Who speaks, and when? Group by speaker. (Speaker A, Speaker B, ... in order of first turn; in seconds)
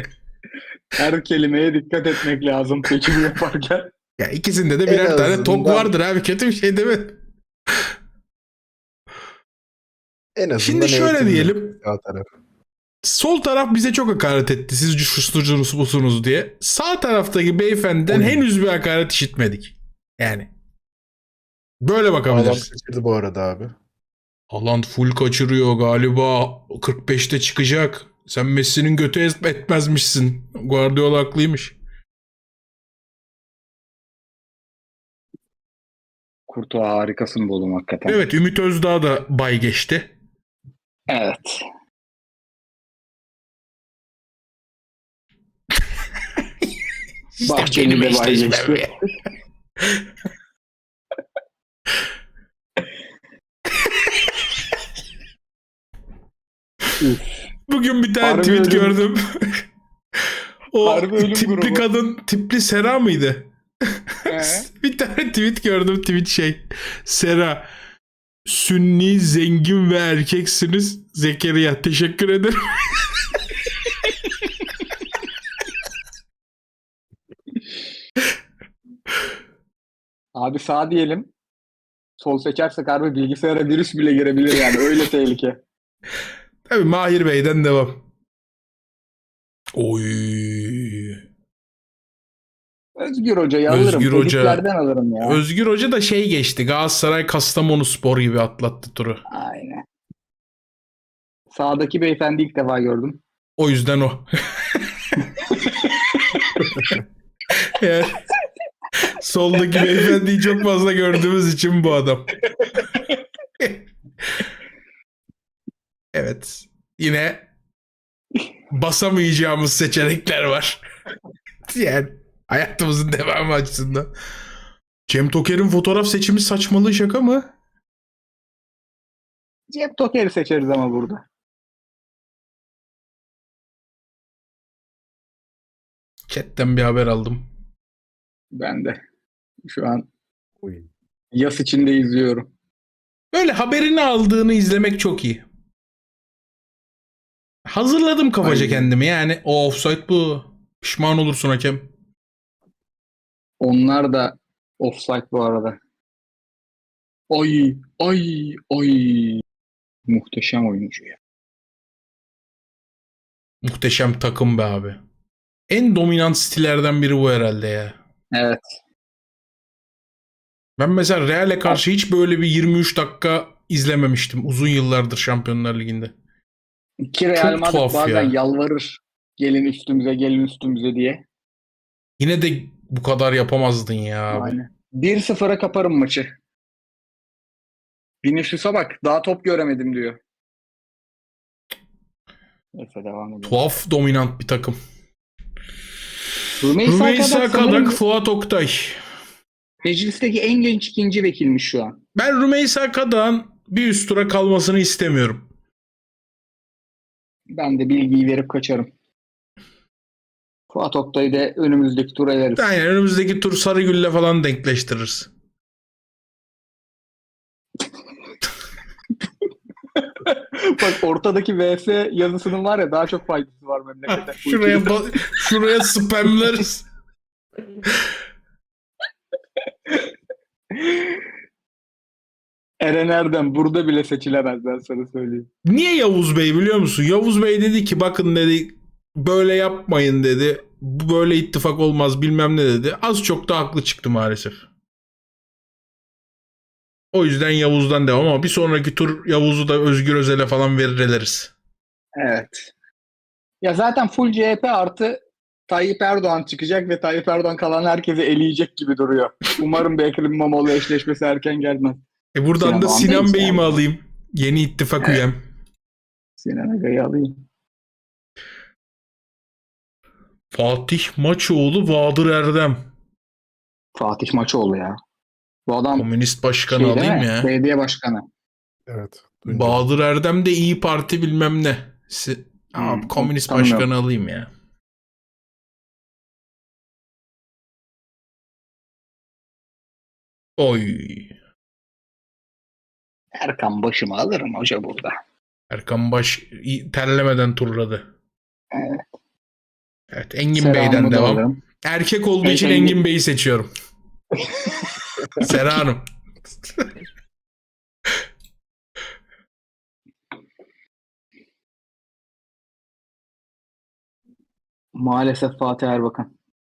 Speaker A: 0.9-3.9, 36.5-38.2, 41.1-41.6, 47.4-48.9, 57.0-57.4, 58.2-59.0, 60.8-61.9, 64.2-64.7, 80.3-81.3, 82.2-85.6, 93.0-95.4, 99.3-99.8, 101.5-103.2, 105.4-106.7, 109.8-110.0, 112.7-113.1, 129.7-131.2, 138.5-139.0, 139.6-140.1, 141.3-142.5, 148.4-148.9, 153.6-155.8, 157.3-159.4, 160.1-161.2, 168.3-168.6, 177.0-181.2, 184.3-186.3, 188.2-190.2, 192.7-193.6, 196.6-198.0, 199.8-202.0, 207.5-208.9, 210.7-212.6, 219.9-224.9, 230.7-231.2, 232.8-235.5, 252.2-252.7, 253.6-262.0, 262.6-263.8, 266.4-267.4, 273.9-275.0, 275.7-276.1, 276.7-278.2, 282.8-283.9, 293.3-295.2, 298.7-299.0, 300.5-301.6, 302.4-303.0, 304.4-305.5, 314.9-316.3
Speaker B: 4.2-7.2, 10.6-11.8, 13.0-20.5, 21.8-22.7, 24.5-31.7, 38.1-40.1, 47.4-49.0, 57.7-59.6, 60.7-67.7, 68.5-72.9, 86.7-88.0, 89.7-91.2, 93.7-94.6, 95.2-99.2, 103.6-104.8, 107.6-108.2, 109.0-112.4, 116.1-117.5, 118.7-120.8, 121.7-124.1, 125.1-127.5, 136.3-137.5, 143.3-145.4, 147.7-151.9, 163.6-165.0, 165.7-168.0, 170.8-176.1, 177.3-178.3, 182.2-184.6, 193.4-194.8, 196.8-199.0, 202.1-205.5, 212.6-215.3, 224.1-226.8, 235.6-244.7, 247.1-251.5, 262.3-265.4, 270.5-272.8, 275.9-277.5, 279.4-284.5, 290.6-291.3, 295.7-298.0, 300.1-303.7, 305.4-306.0, 306.6-306.9
Speaker C: 4.8-5.9, 10.3-12.3, 18.1-18.4, 22.3-23.7, 140.6-140.9, 278.9-279.8